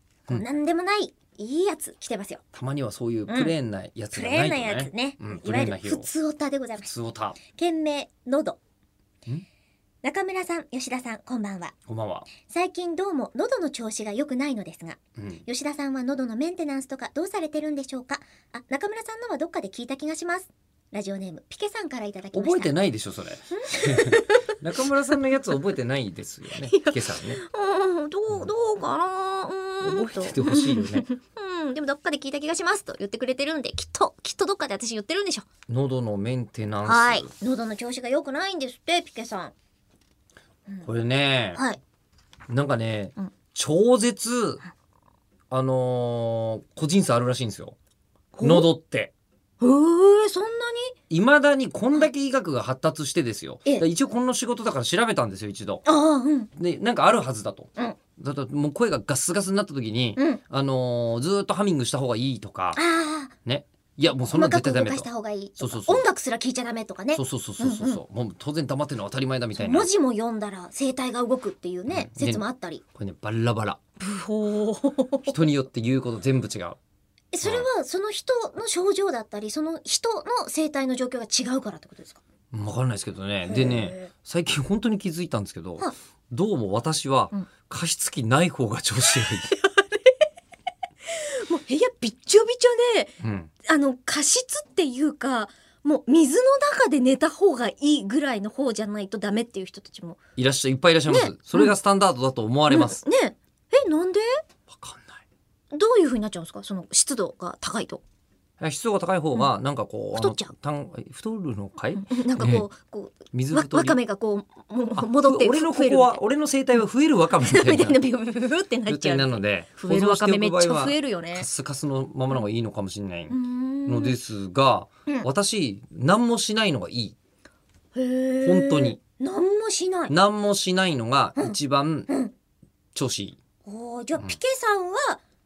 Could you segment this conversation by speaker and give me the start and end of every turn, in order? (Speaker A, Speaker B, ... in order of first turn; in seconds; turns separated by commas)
Speaker A: 0.3-2.4, Speaker B: 2.5-6.1, Speaker A: 3.3-3.5, Speaker A: 4.1-6.9, Speaker B: 6.8-7.4, Speaker A: 7.5-8.6, Speaker A: 10.0-11.8, Speaker B: 11.9-12.3, Speaker A: 12.4-22.7, Speaker B: 15.2-15.4, Speaker B: 22.3-27.4, Speaker A: 23.6-24.4, Speaker A: 26.6-35.5, Speaker B: 29.8-31.1, Speaker B: 35.7-37.3, Speaker A: 36.9-39.5, Speaker B: 40.8-41.6, Speaker B: 42.5-44.6, Speaker B: 45.5-47.8, Speaker A: 48.4-48.7, Speaker B: 48.4-49.1, Speaker A: 49.6-51.0, Speaker B: 51.1-55.9, Speaker A: 55.9-56.5, Speaker B: 56.6-62.8, Speaker A: 60.2-60.4, Speaker A: 62.8-63.3, Speaker B: 63.5-66.0, Speaker A: 64.3-68.0, Speaker B: 67.1-69.9, Speaker A: 69.6-72.8, Speaker B: 71.9-72.4, Speaker B: 73.0-73.8, Speaker A: 74.0-75.5, Speaker B: 75.3-76.8, Speaker A: 77.3-82.2, Speaker B: 77.4-77.7, Speaker B: 82.5-89.5, Speaker A: 83.5-84.1, Speaker A: 89.5-90.2, Speaker A: 91.1-100.2, Speaker B: 93.2-93.5, Speaker B: 100.4-103.0, Speaker A: 101.1-101.8, Speaker A: 102.7-104.4, Speaker B: 104.7-105.2, Speaker A: 105.7-108.0, Speaker B: 108.6-112.7, Speaker A: 110.2-110.5, Speaker A: 112.0-116.2, Speaker B: 113.3-114.0, Speaker B: 115.0-118.0, Speaker A: 117.4-121.5, Speaker B: 118.9-127.2, Speaker A: 123.3-124.2, Speaker A: 128.0-130.1, Speaker B: 128.4-129.0, Speaker B: 130.1-132.1, Speaker A: 132.1-132.3, Speaker B: 132.9-133.4, Speaker A: 133.7-135.2